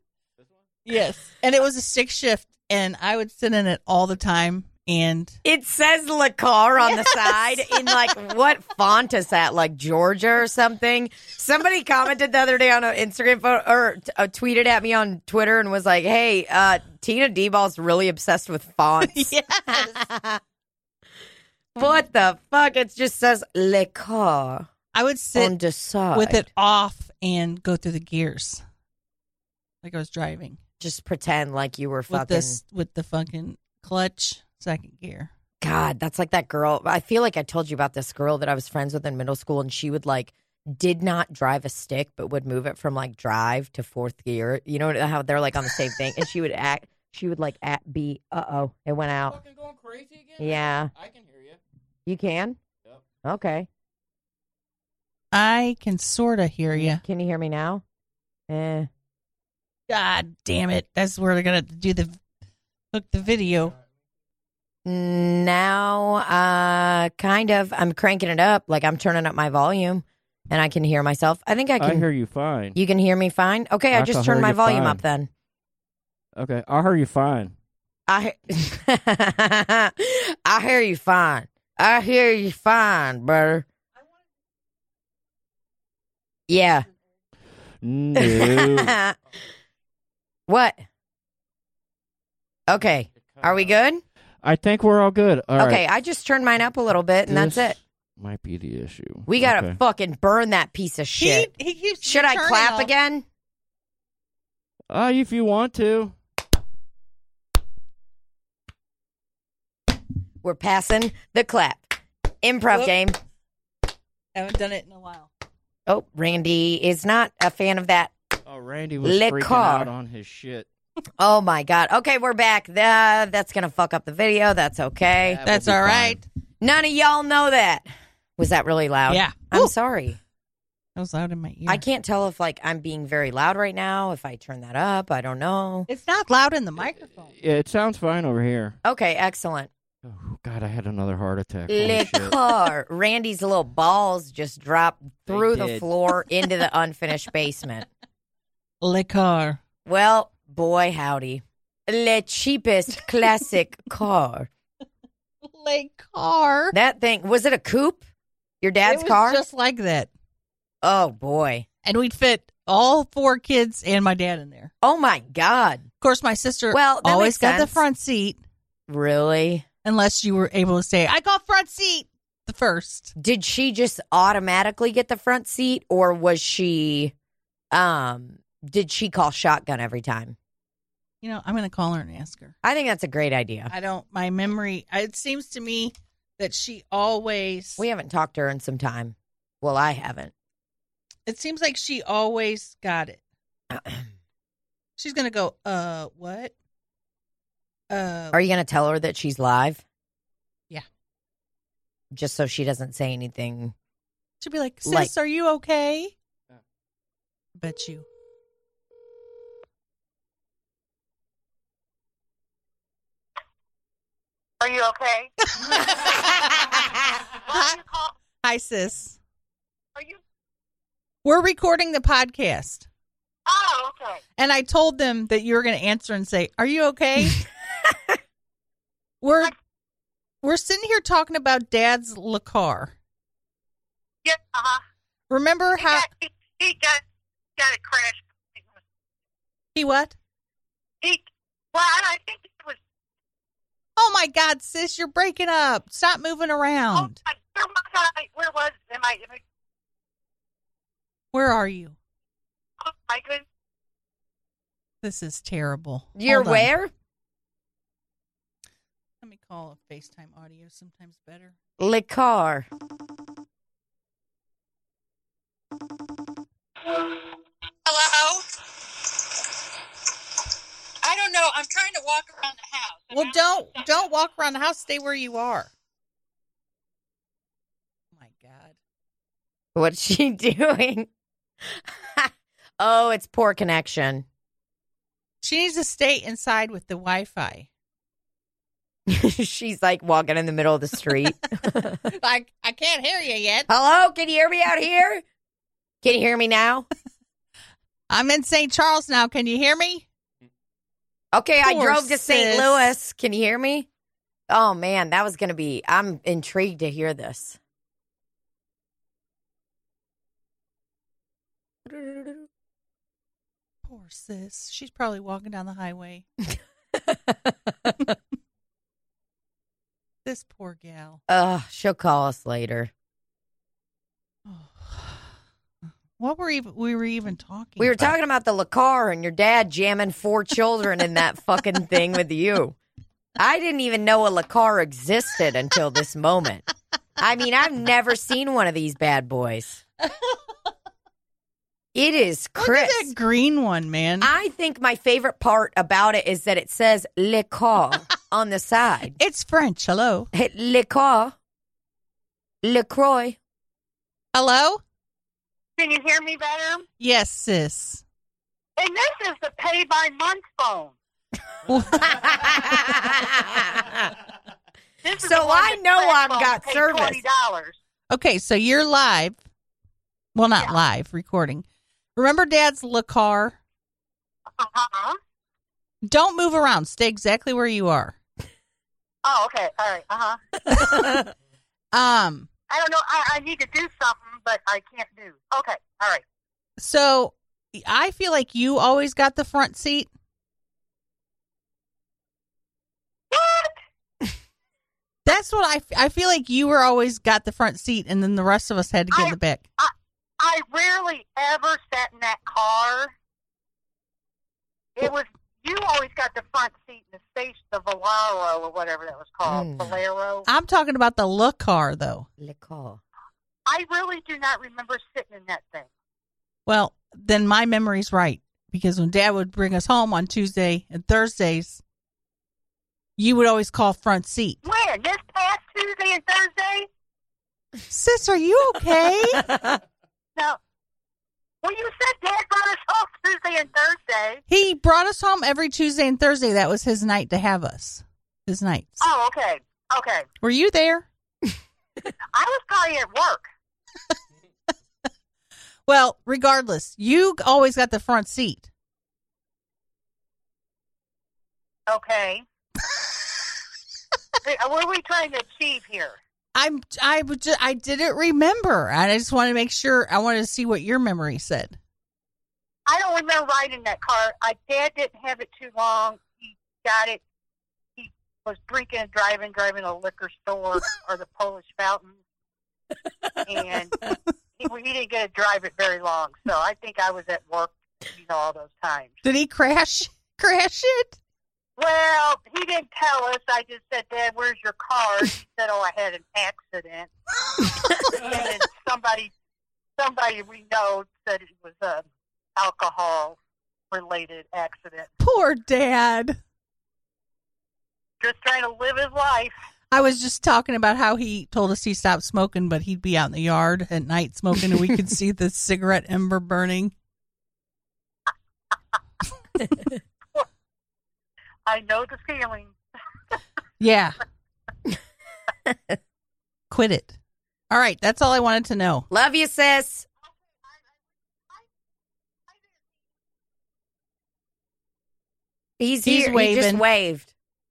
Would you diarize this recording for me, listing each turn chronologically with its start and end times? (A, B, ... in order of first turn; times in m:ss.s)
0:00.4-0:00.6 A
0:00.8-0:05.4 B
0:05.4-0:20.4 C
0:06.9-0:07.9 B
0:19.1-0:20.0 B
0:21.7-0:24.7 C
0:24.9-0:25.5 B
0:25.3-0:26.4 C
0:26.1-0:28.6 B
0:29.8-0:30.6 B
0:30.8-0:32.6 C
0:32.1-0:35.3 B
0:35.6-0:49.4 C
0:49.3-0:51.6 A
0:50.4-0:50.9 C
0:52.0-0:52.6 C
0:53.2-0:53.7 C
0:55.3-0:57.0 B
0:56.7-0:57.8 C
0:58.5-0:58.9 C
0:59.9-1:02.2 B
1:02.9-1:03.7 B
1:04.8-1:12.1 C
1:11.8-1:12.8 D
1:12.7-1:15.3 C
1:13.9-1:15.0 D
1:16.4-1:17.5 D
1:18.1-1:23.6 C
1:26.5-1:26.9 C
1:27.8-1:29.0 D
1:28.1-1:29.2 C
1:30.5-1:30.8 C
1:32.7-1:34.0 C
1:34.4-1:35.8 D
1:35.6-1:37.8 C
1:37.3-1:39.8 D
1:39.3-1:41.5 C
1:41.2-1:42.9 B
1:42.0-1:43.2 C
1:44.9-1:46.2 D
1:50.4-1:53.2 C
1:54.3-1:55.3 B
1:55.9-1:58.1 C
1:58.4-2:00.7 D
1:59.0-1:59.9 C
2:01.2-2:05.4 C
2:05.2-2:06.2 D
2:05.4-2:06.2 B
2:06.6-2:10.2 C
2:09.1-2:09.7 B
2:11.0-2:11.8 B
2:11.7-2:15.9 C
2:15.9-2:17.3 B
2:17.3-2:18.8 D
2:18.8-2:19.7 C
2:20.0-2:22.4 D
2:21.7-2:27.9 C
2:25.3-2:25.9 D
2:28.8-2:29.6 B
2:29.8-2:34.5 C
2:35.5-2:36.8 B
2:36.7-2:38.0 C
2:38.6-2:39.4 C
2:38.8-2:40.1 B
2:40.8-2:41.6 C
2:41.8-2:44.7 B
2:44.8-2:45.8 C
2:46.0-2:48.4 B
2:46.7-2:47.8 C
2:48.9-2:49.6 C
2:49.8-2:53.1 B
2:53.2-2:57.1 C
2:57.7-3:00.4 C
3:01.2-3:02.5 B
3:02.6-3:03.7 C
3:03.7-3:07.8 B
3:07.8-3:10.3 C
3:11.3-3:13.2 B
3:13.7-3:14.0 C
3:15.0-3:16.5 B
3:17.9-3:18.4 B
3:18.3-3:19.8 C
3:22.1-3:23.7 C
3:24.4-3:26.1 B
3:24.8-3:25.1 C
3:27.6-3:28.0 B
3:34.6-3:36.2 E
3:35.6-3:36.8 B
3:37.3-3:38.1 E
3:37.5-3:37.8 B
3:38.4-3:39.2 B
3:41.2-3:42.9 B
3:43.5-3:44.2 E
3:44.4-3:47.4 B
3:49.2-3:49.5 B
3:50.4-3:52.9 B
3:54.2-3:54.8 E
3:55.3-3:56.0 B
3:55.8-3:57.0 E
3:57.6-3:58.6 E
3:59.7-4:00.2 B
4:01.0-4:02.8 E
4:04.0-4:07.2 B
4:06.9-4:09.4 E
4:11.3-4:12.0 B
4:12.8-4:13.4 E
4:15.0-4:16.7 B
4:16.2-4:16.9 C
4:19.2-4:21.5 B
4:21.8-4:22.7 C
4:27.8-4:28.4 E
4:31.0-4:33.3 E
4:33.1-4:35.7 B
4:38.2-4:38.8 B
4:39.7-4:41.1 C
4:41.6-4:44.2 C
4:45.4-4:47.7 B
4:49.1-4:52.0 C
4:52.0-4:53.7 B
4:53.7-4:55.2 C
4:56.0-4:56.9 C
4:58.1-5:00.0 B
5:01.3-5:03.9 C
5:01.6-5:02.9 B
5:04.5-5:07.6 C
5:11.9-5:12.4 C
5:13.8-5:16.2 B
5:17.0-5:18.1 C
5:20.2-5:21.2 B
5:21.3-5:22.9 C
5:24.5-5:25.2 B
5:26.2-5:28.1 B
5:27.8-5:32.8 C
5:33.4-5:36.6 C
5:37.2-5:39.8 C
5:41.9-5:43.1 C
5:42.6-5:44.3 B
5:44.2-5:49.2 C
5:49.2-5:50.3 B
5:50.3-5:51.3 C
5:52.6-5:53.4 C
5:54.3-5:54.8 B
5:55.8-5:56.8 E
5:57.0-5:58.0 B
5:58.8-6:00.9 E
6:01.7-6:02.1 B
6:01.9-6:04.1 C
6:05.0-6:07.7 E
6:05.2-6:07.2 C
6:08.1-6:09.4 B
6:10.3-6:11.6 B
6:12.2-6:13.6 B
6:14.6-6:15.2 E
6:16.0-6:18.2 B
6:19.2-6:20.4 E
6:21.9-6:22.5 B
6:22.7-6:26.2 E
6:26.8-6:30.1 B
6:33.3-6:33.8 E
6:35.2-6:39.6 B
6:39.1-6:43.1 E
6:45.0-6:50.5 E
6:49.4-6:49.9 C
6:50.4-6:52.3 B
6:52.4-6:53.0 C
6:53.7-6:55.9 E
6:56.6-7:01.8 B
7:03.2-7:04.6 B
7:04.6-7:06.9 E
7:07.9-7:09.5 B
7:11.6-7:14.4 E
7:14.5-7:19.0 B
7:19.0-7:20.3 E
7:20.4-7:21.0 B
7:22.3-7:23.4 E
7:25.9-7:28.7 B
7:31.9-7:32.4 E
7:34.4-7:36.2 E
7:36.5-7:41.8 B
7:42.9-7:47.2 E
7:48.0-7:52.2 E
7:53.4-7:59.1 E
7:59.2-8:01.2 B
8:01.8-8:07.1 E
8:07.9-8:09.3 E
8:10.0-8:12.0 E
8:12.6-8:13.4 E
8:13.9-8:15.1 E
8:15.2-8:16.4 B
8:18.2-8:19.5 E
8:19.9-8:26.9 B
8:31.6-8:32.7 E
8:33.8-8:34.2 B
8:35.7-8:35.9 C
8:36.7-8:37.2 B
8:37.7-8:39.1 B
8:39.1-8:40.0 C
8:45.8-8:47.3 C
8:46.0-8:46.8 B